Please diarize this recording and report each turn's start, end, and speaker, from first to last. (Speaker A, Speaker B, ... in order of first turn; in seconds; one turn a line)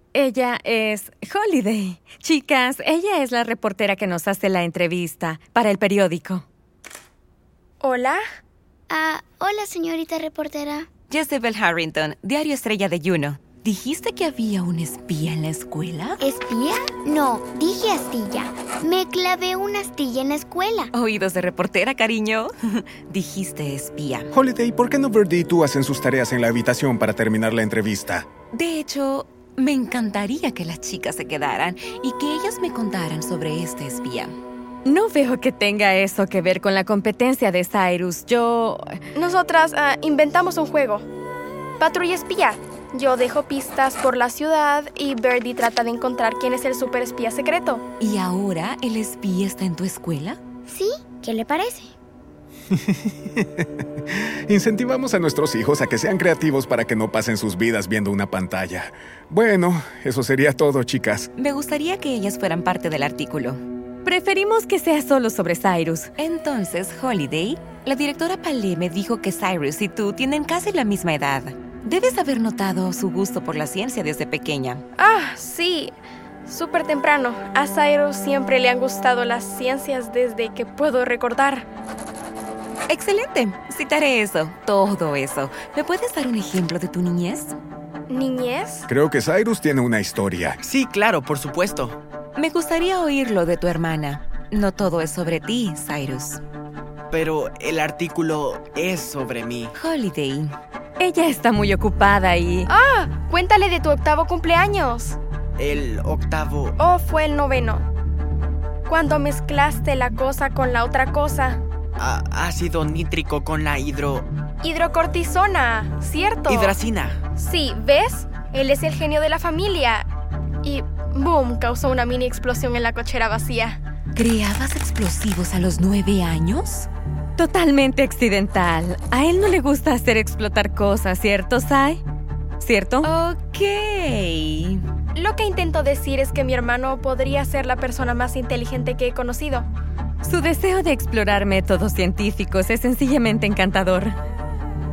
Speaker A: 0.1-6.4
Speaker B: 7.8-8.2
Speaker C: 8.9-10.9
Speaker D: 11.1-16.2
Speaker C: 16.2-20.9
Speaker D: 20.9-24.3
Speaker E: 24.3-28.3
Speaker D: 28.5-34.3
Speaker A: 34.9-39.0
Speaker B: 39.1-41.0
Speaker B: 41.8-47.8
Speaker D: 48.0-50.4
Speaker C: 50.7-51.9
Speaker E: 52.7-61.3
Speaker D: 61.4-63.6
Speaker A: 64.0-66.1
Speaker D: 66.2-74.8
Speaker B: 75.0-76.0
Speaker B: 76.5-81.7
Speaker D: 82.9-87.6
Speaker B: 88.1-88.9
Speaker E: 88.9-90.6
Speaker F: 90.6-92.0
Speaker D: 92.4-96.4
Speaker F: 97.1-99.7
Speaker D: 99.8-100.5
Speaker A: 101.0-102.7
Speaker B: 102.7-105.2
Speaker F: 105.6-106.8
Speaker B: 106.8-107.9
Speaker B: 108.9-111.6
Speaker F: 112.0-114.3
Speaker B: 114.6-116.8
Speaker F: 116.5-117.2
Speaker B: 117.3-120.1
Speaker B: 120.6-123.8
Speaker D: 124.2-126.9
Speaker A: 127.4-132.0
Speaker A: 132.6-133.1
Speaker D: 133.0-134.8
Speaker B: 135.1-139.7
Speaker A: 140.2-144.1